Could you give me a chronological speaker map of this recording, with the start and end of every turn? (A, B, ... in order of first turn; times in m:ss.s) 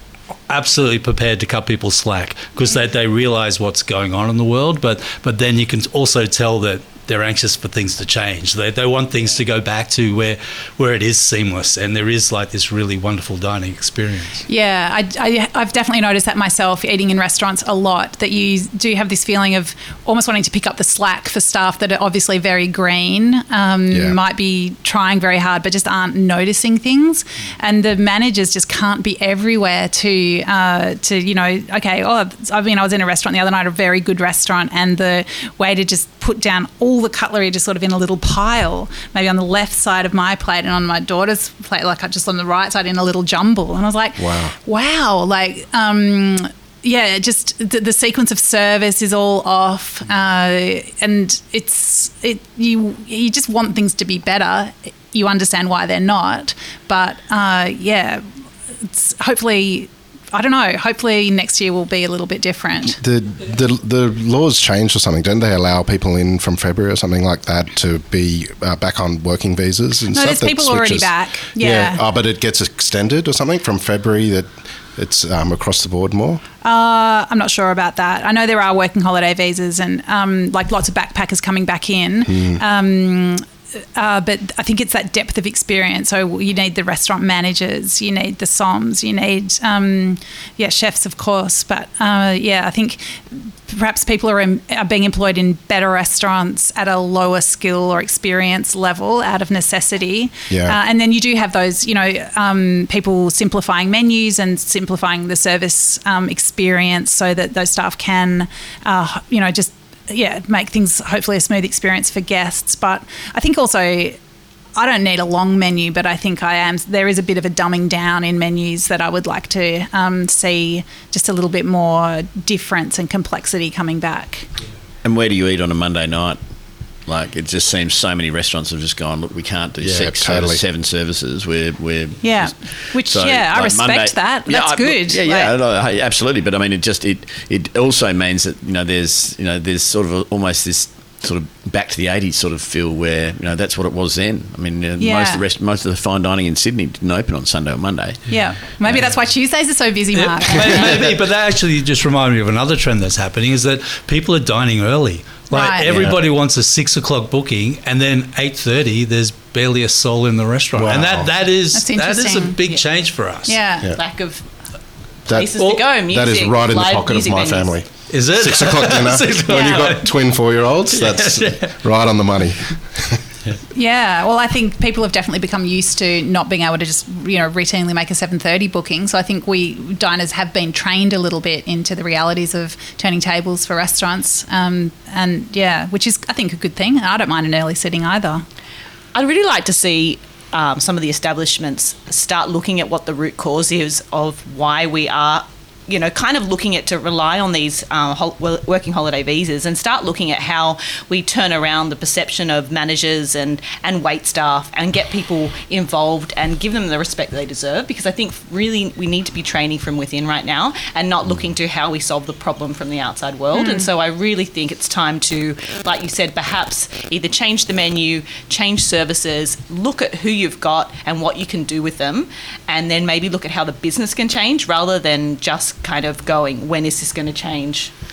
0:00.5-0:14.4 A
0:14.5-0:58.2 B
0:23.9-0:24.2 C
0:44.2-0:44.5 C
0:58.8-1:03.0 B
1:02.9-1:16.4 C
1:10.1-1:12.0 B
1:16.6-1:54.2 B
1:22.3-1:22.6 C
1:40.5-1:40.8 C
1:54.8-2:04.5 B
2:05.0-2:06.4 D
2:07.1-2:28.3 D
2:09.8-2:10.6 C
2:12.2-2:15.5 B
2:25.0-2:25.4 B
2:28.3-2:31.0 B
2:28.9-2:29.2 A
2:30.1-2:43.6 A
2:35.5-2:36.1 B
2:35.9-2:36.2 C
2:40.8-2:41.3 C
2:41.7-2:42.6 B
2:43.5-2:43.9 B
2:43.8-2:44.5 E
2:45.3-2:47.7 E
2:45.3-2:53.2 C
2:45.6-2:45.8 A
2:48.1-2:50.1 A
2:49.5-2:49.8 B
2:50.9-2:51.7 A
2:53.7-3:08.4 B
3:09.1-3:47.9 E
3:33.5-3:33.9 B